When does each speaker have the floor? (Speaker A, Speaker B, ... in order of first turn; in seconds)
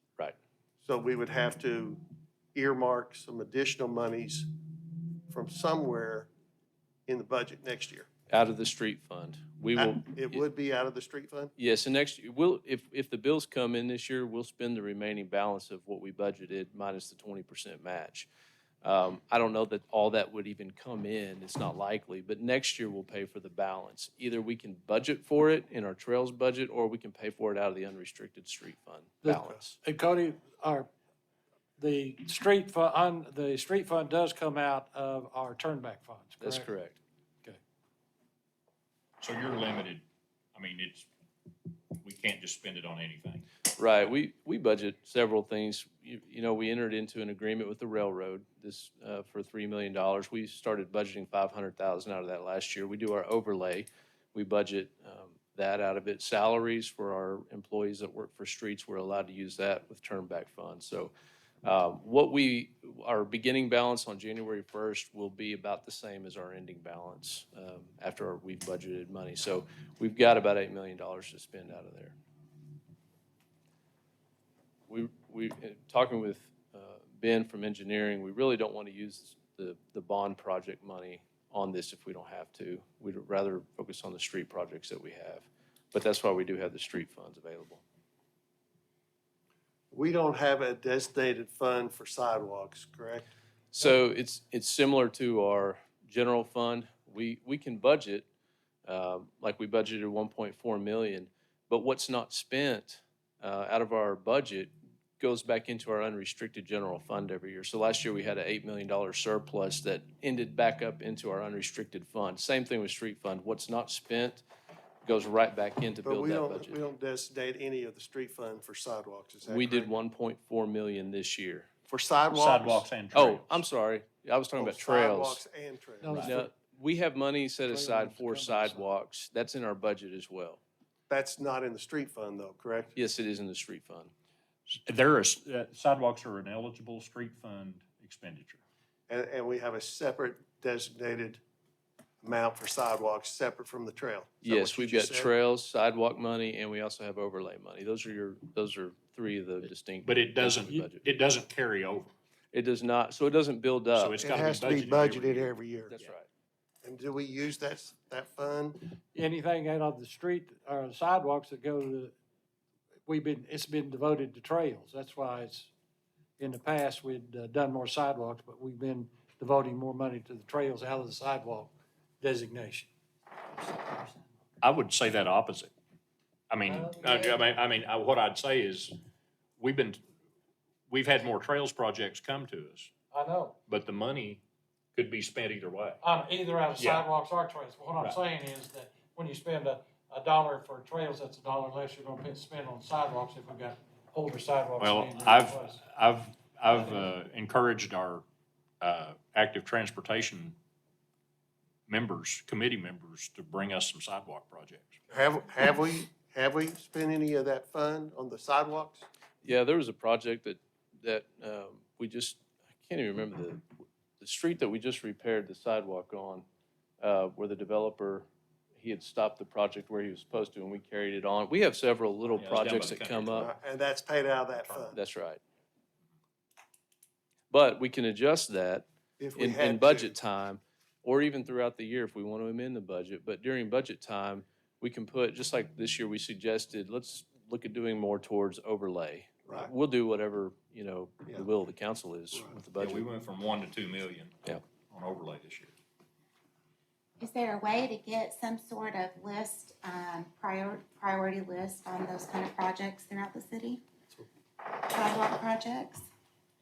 Speaker A: 0.8-2.0, 2.5-4.7, 5.3-6.3, 7.1-8.1, 9.7-11.5, 89.9-93.3, 116.0-119.9, 121.9-122.8, 124.6-126.5, 131.1-132.9, 139.1-141.4, 142.2-145.3, 154.2-155.9, 156.8-158.9, 205.1-209.1, 223.3-225.0, 229.2-230.2
Speaker B: 8.3-10.4, 11.6-18.3, 18.8-29.8, 36.4-37.0, 43.8-61.1, 61.6-72.2, 74.9-87.8, 93.7-98.3, 98.8-114.4, 115.0-116.8, 119.5-121.7, 123.1-125.4, 126.2-130.6, 132.9-134.1, 144.4-151.1, 152.5-154.2, 156.0-156.3, 209.4-213.6, 214.2-216.4, 217.0-223.5, 224.9-225.4, 227.5-228.8, 229.3-243.0
Speaker C: 29.2-30.9, 31.8-36.7, 126.0-126.3, 127.7-128.9, 159.1-162.1, 163.1-165.7, 166.4-172.9, 176.7-177.3, 183.1-183.5, 186.0-195.8
Speaker D: 39.2-40.0, 40.5-41.1, 42.0-43.5, 122.3-123.7, 134.7-138.6, 150.0-152.1, 153.9-156.1, 174.6-175.7, 176.5-178.9, 179.6-180.0, 180.9-182.9, 183.7-184.4, 184.9-186.0, 186.8-187.0, 194.8-198.2, 198.8-200.5, 201.9-205.0, 222.3-223.5, 224.6-224.9, 242.8-245.7
Speaker E: 247.2-253.8, 254.6-256.1